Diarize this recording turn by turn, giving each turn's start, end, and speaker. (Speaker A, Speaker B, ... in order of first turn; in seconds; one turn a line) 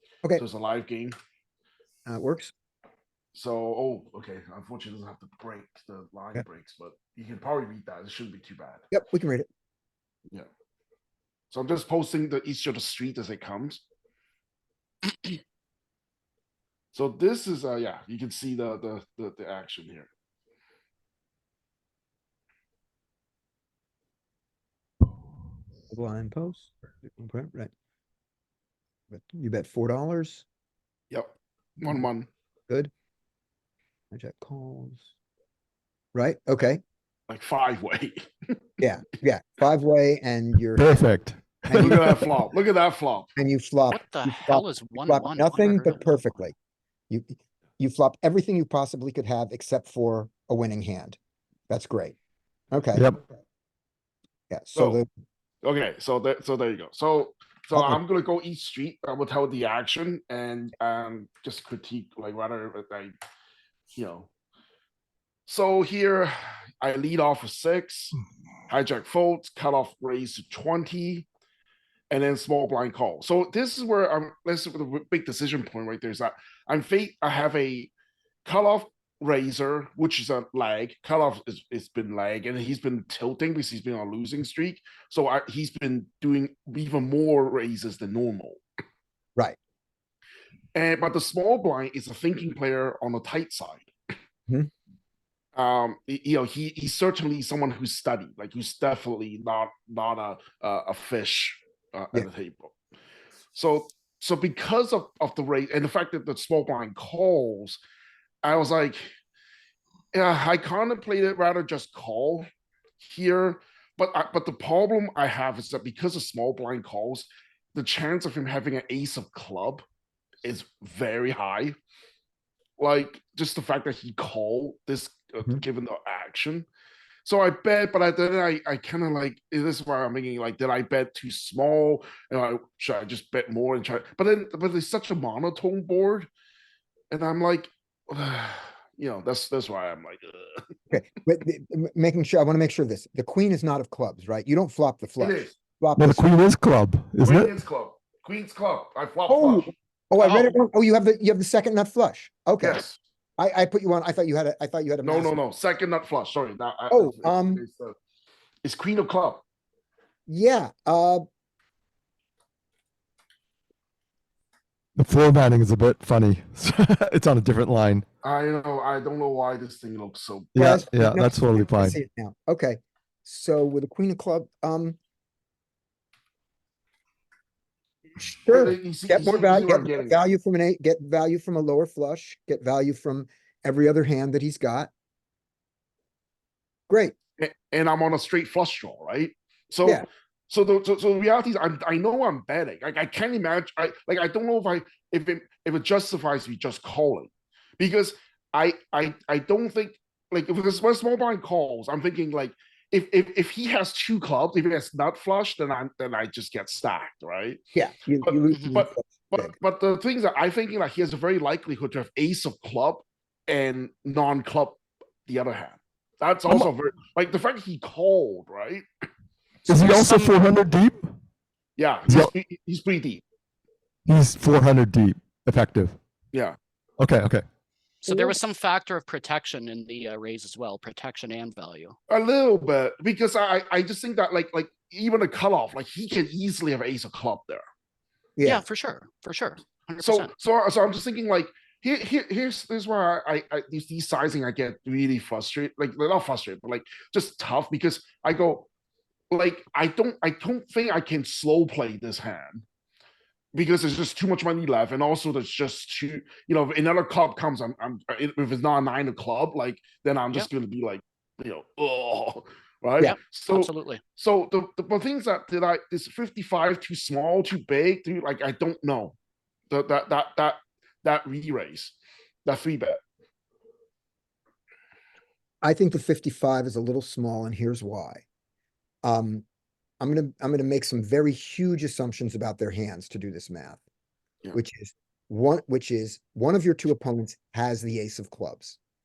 Speaker A: 0.3-1.1
Speaker B: 2.0-2.5
Speaker A: 3.3-8.8
Speaker B: 8.9-9.5
Speaker A: 11.5-13.8
Speaker A: 16.9-20.1
Speaker B: 25.9-27.7
Speaker B: 29.1-30.4
Speaker A: 31.1-32.3
Speaker B: 34.1-35.1
Speaker B: 36.1-36.8
Speaker A: 37.3-38.5
Speaker B: 38.8-41.0
Speaker C: 40.8-42.0
Speaker A: 41.6-43.3
Speaker B: 41.7-42.3
Speaker B: 43.4-46.5
Speaker D: 43.9-46.3
Speaker B: 47.1-51.2
Speaker B: 51.7-52.1
Speaker B: 52.7-53.3
Speaker B: 54.5-55.1
Speaker A: 54.7-55.0
Speaker A: 55.6-63.1
Speaker B: 57.7-58.0
Speaker A: 63.9-64.3
Speaker A: 65.5-68.1
Speaker A: 68.7-71.2
Speaker A: 72.1-77.9
Speaker A: 78.4-88.6
Speaker A: 90.7-93.9
Speaker A: 95.5-102.7
Speaker A: 103.5-107.8
Speaker A: 108.4-109.1
Speaker A: 110.1-112.5
Speaker A: 113.0-119.8
Speaker A: 120.4-121.8
Speaker A: 122.8-126.7
Speaker A: 127.2-136.3
Speaker A: 137.1-140.7
Speaker B: 140.9-146.3
Speaker A: 145.2-145.6
Speaker C: 146.0-147.5
Speaker A: 147.2-149.7
Speaker B: 149.3-152.8
Speaker A: 152.6-153.0
Speaker B: 153.4-155.3
Speaker A: 155.0-157.9
Speaker B: 156.9-157.6
Speaker A: 158.6-159.4
Speaker B: 160.3-161.2
Speaker C: 165.0-168.0
Speaker A: 168.2-170.5
Speaker C: 170.5-172.0
Speaker B: 170.6-175.0
Speaker B: 178.2-184.9
Speaker A: 178.5-180.2
Speaker B: 186.9-187.1
Speaker A: 187.4-207.6
Speaker B: 207.7-209.5
Speaker A: 208.2-218.8
Speaker D: 208.5-208.8
Speaker C: 219.7-221.1
Speaker D: 219.7-220.4
Speaker A: 221.8-223.2
Speaker C: 222.1-222.3
Speaker C: 224.1-226.0
Speaker C: 227.0-227.4
Speaker D: 228.0-231.9
Speaker B: 228.1-228.3
Speaker A: 232.1-237.6
Speaker B: 238.4-238.6
Speaker D: 238.4-240.3
Speaker A: 240.0-248.7
Speaker A: 249.3-252.6
Speaker A: 253.5-269.1
Speaker D: 263.0-264.0
Speaker A: 269.7-273.0
Speaker B: 275.6-278.2
Speaker B: 279.0-279.4
Speaker B: 280.0-283.8
Speaker B: 284.5-288.8